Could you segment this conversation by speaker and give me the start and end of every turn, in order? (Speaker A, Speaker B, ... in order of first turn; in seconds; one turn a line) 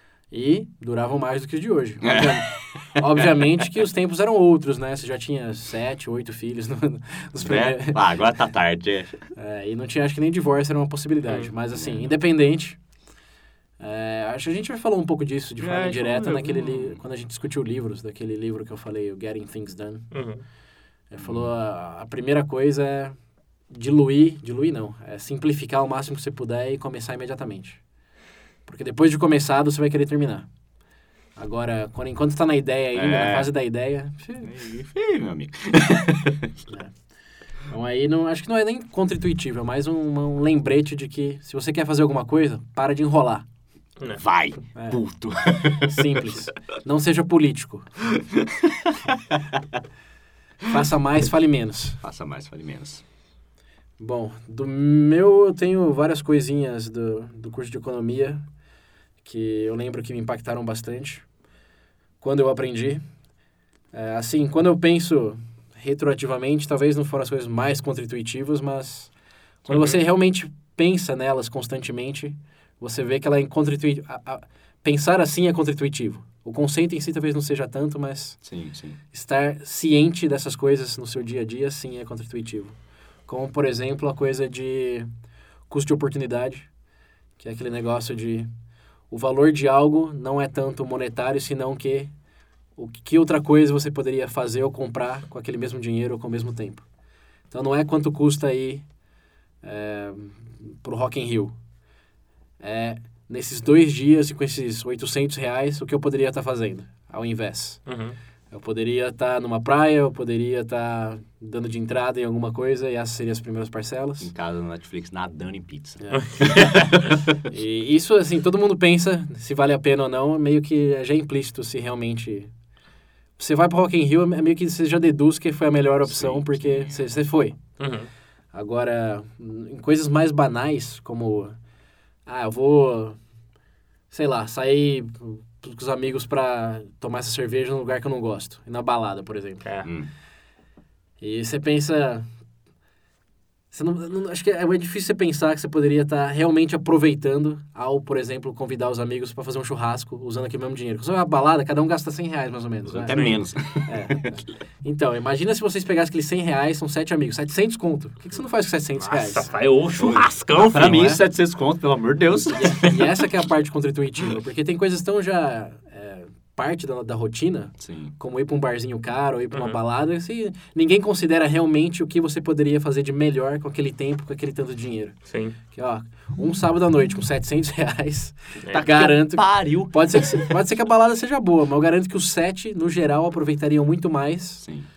Speaker A: 0.3-8.0
Speaker B: 2.0-3.3
Speaker B: 7.4-9.2
Speaker A: 9.3-12.8
Speaker B: 11.7-12.2
Speaker A: 13.8-20.1
Speaker B: 15.6-17.0
Speaker C: 16.2-16.6
Speaker C: 20.1-20.4
Speaker A: 21.1-23.2
Speaker B: 21.2-21.5
Speaker A: 23.7-27.8
Speaker A: 28.6-30.5
Speaker A: 31.4-34.5
Speaker B: 32.9-33.5
Speaker B: 34.4-36.6
Speaker A: 36.7-37.0
Speaker A: 37.6-43.5
Speaker B: 44.1-46.3
Speaker A: 45.8-48.0
Speaker B: 48.3-49.5
Speaker A: 50.6-52.0
Speaker B: 52.0-53.0
Speaker A: 54.0-58.4
Speaker A: 59.2-61.3
Speaker A: 62.2-63.0
Speaker A: 63.9-78.4
Speaker C: 69.7-70.0
Speaker B: 78.4-79.0
Speaker A: 79.1-85.1
Speaker A: 85.7-86.7
Speaker A: 87.4-88.5
Speaker A: 89.1-92.1
Speaker A: 92.8-96.8
Speaker A: 97.5-98.9
Speaker A: 99.6-101.6
Speaker A: 102.6-107.8
Speaker C: 107.8-108.2
Speaker A: 108.5-114.3
Speaker B: 114.2-117.1
Speaker A: 116.0-116.6
Speaker C: 116.1-117.1
Speaker A: 117.5-122.5
Speaker A: 123.4-127.6
Speaker B: 126.0-127.0
Speaker C: 127.8-128.1
Speaker A: 128.5-131.6
Speaker A: 132.2-133.2
Speaker A: 134.1-139.6
Speaker B: 139.8-140.1
Speaker A: 141.2-142.3
Speaker A: 143.7-153.3
Speaker B: 152.8-154.4
Speaker C: 153.1-153.4
Speaker A: 153.8-159.5
Speaker C: 159.0-161.2
Speaker B: 160.0-162.9
Speaker A: 160.8-161.2
Speaker A: 162.5-184.7
Speaker B: 167.8-168.1
Speaker C: 169.5-169.8
Speaker C: 175.3-175.5
Speaker B: 178.7-180.6
Speaker B: 184.6-184.9